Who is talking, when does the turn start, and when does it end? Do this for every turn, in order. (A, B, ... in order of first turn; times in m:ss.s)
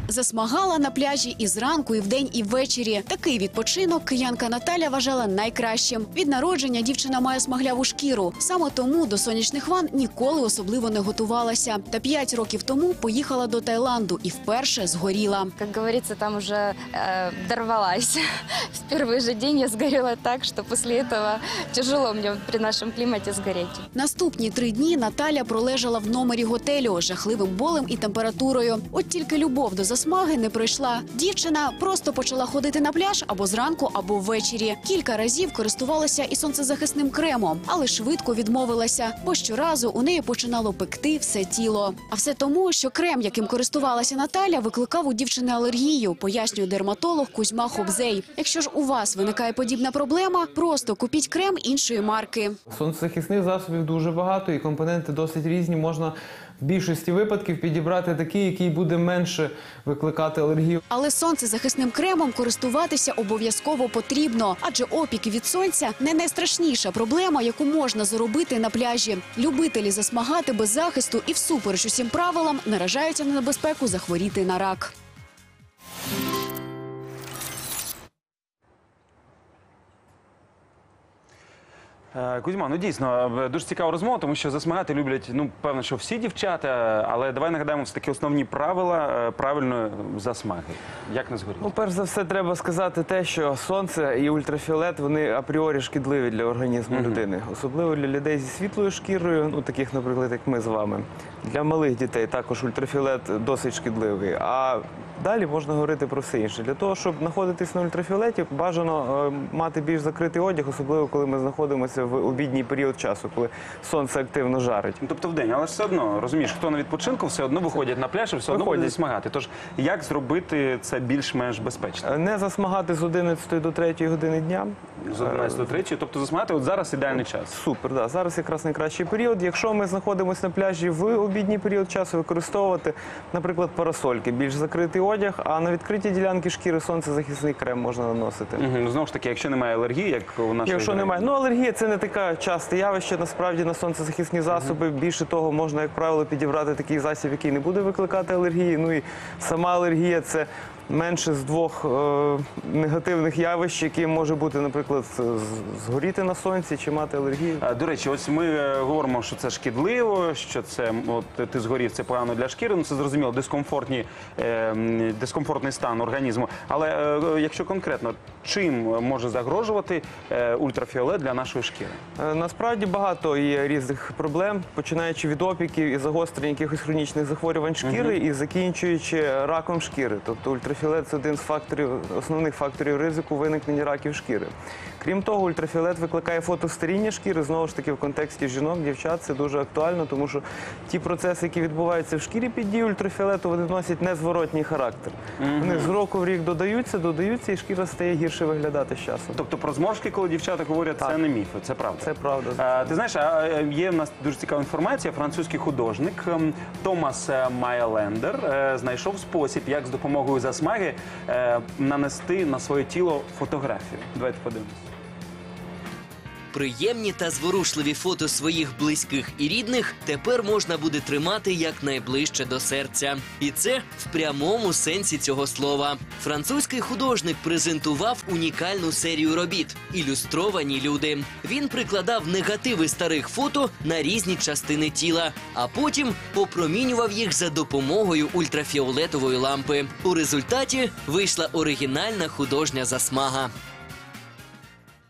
0:00.1-0:15.5 A
0:15.6-0:18.1 B
0:18.8-0:23.8 B
0:23.9-0:52.6 A
0:52.7-1:00.8 C
1:00.9-1:14.9 A
1:22.1-1:31.7 D
1:31.6-1:55.0 C
1:36.9-1:37.2 D
1:55.0-2:02.0 D
1:58.5-1:59.0 C
2:02.0-2:05.6 C
2:05.0-2:07.6 D
2:07.5-2:18.6 C
2:18.6-2:21.3 D
2:20.6-2:37.6 C
2:37.6-2:52.0 D
2:52.2-3:19.4 C
2:57.8-2:58.2 D
3:15.4-3:15.9 D
3:19.3-3:34.8 D
3:22.0-3:22.9 C
3:36.5-4:03.5 E